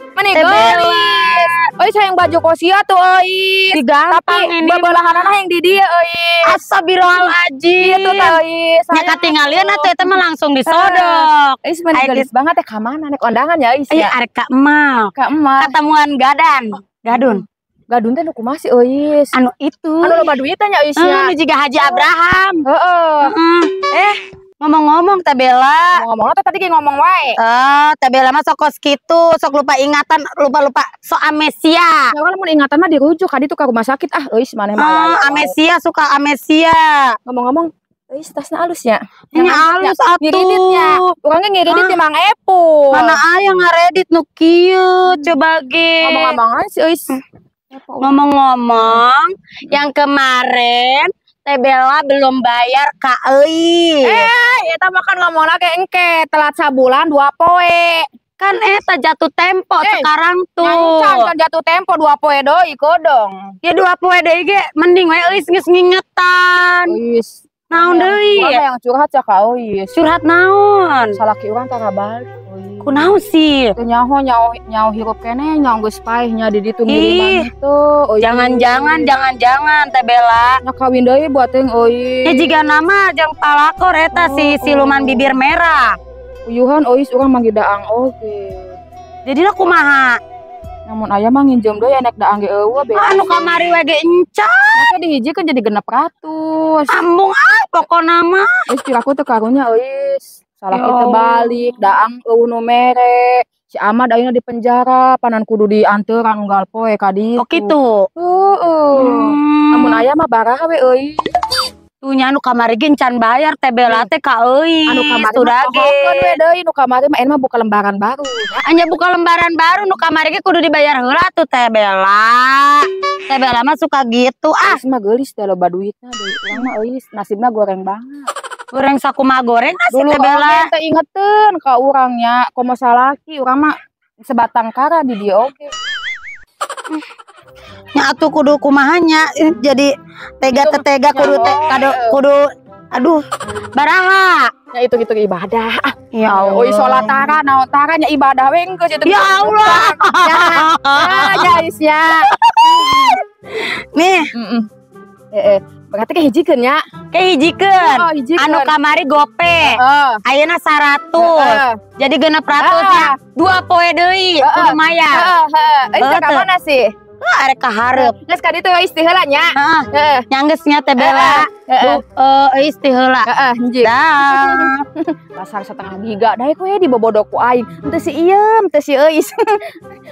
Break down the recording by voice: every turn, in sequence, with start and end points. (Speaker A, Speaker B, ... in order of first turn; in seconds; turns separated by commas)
Speaker A: 0.1-6.6, Speaker B: 0.3-1.6, Speaker B: 3.7-5.3, Speaker B: 6.4-8.4, Speaker A: 7.1-14.1, Speaker B: 8.9-12.2, Speaker B: 13.9-15.1, Speaker A: 15.2-15.7, Speaker B: 15.6-17.4, Speaker A: 17.1-19.3, Speaker B: 19.3-20.3, Speaker A: 20.0-22.0, Speaker B: 20.9-22.6, Speaker A: 22.6-23.3, Speaker B: 23.2-26.0, Speaker A: 25.9-27.3, Speaker B: 27.4-32.0, Speaker A: 32.1-35.5, Speaker B: 34.8-37.2, Speaker A: 37.2-43.2, Speaker B: 39.3-41.0, Speaker B: 41.7-41.9, Speaker B: 42.9-46.4, Speaker A: 46.0-47.1, Speaker A: 47.7-48.1, Speaker B: 48.0-54.2, Speaker A: 54.0-58.1, Speaker B: 58.4-61.3, Speaker A: 59.8-60.1, Speaker A: 60.6-63.5, Speaker B: 63.6-67.0, Speaker A: 66.9-69.9, Speaker B: 67.7-68.6, Speaker B: 70.0-71.2, Speaker A: 71.1-73.1, Speaker B: 72.8-73.7, Speaker A: 73.8-79.1, Speaker B: 76.9-77.5, Speaker B: 78.2-80.6, Speaker A: 80.6-82.5, Speaker B: 82.2-85.9, Speaker A: 84.1-85.3, Speaker A: 86.5-88.8, Speaker B: 89.2-90.2, Speaker A: 90.9-93.3, Speaker B: 92.9-94.9, Speaker A: 94.8-96.9, Speaker B: 96.9-98.5, Speaker A: 98.7-111.3, Speaker B: 100.7-101.6, Speaker B: 107.4-108.1, Speaker B: 108.9-110.0, Speaker B: 112.0-116.4, Speaker A: 113.8-114.1, Speaker A: 114.9-118.5, Speaker B: 118.6-124.8, Speaker A: 124.7-128.3, Speaker B: 128.7-130.7, Speaker A: 129.9-135.7, Speaker B: 137.9-139.9, Speaker B: 140.4-143.2, Speaker A: 140.4-142.2, Speaker B: 143.7-144.4, Speaker A: 144.7-153.0, Speaker B: 146.1-147.3, Speaker B: 149.1-151.6, Speaker B: 152.4-153.2, Speaker B: 153.9-154.2, Speaker A: 154.3-154.7, Speaker A: 155.3-156.8, Speaker B: 157.1-165.2, Speaker A: 157.8-158.7, Speaker A: 159.6-160.2, Speaker A: 161.2-161.8, Speaker A: 162.6-163.1, Speaker A: 164.4-166.9, Speaker B: 166.0-166.4, Speaker B: 167.2-168.1, Speaker A: 167.9-170.2, Speaker B: 169.5-173.3, Speaker A: 171.0-172.0, Speaker A: 173.2-179.7, Speaker B: 173.8-174.7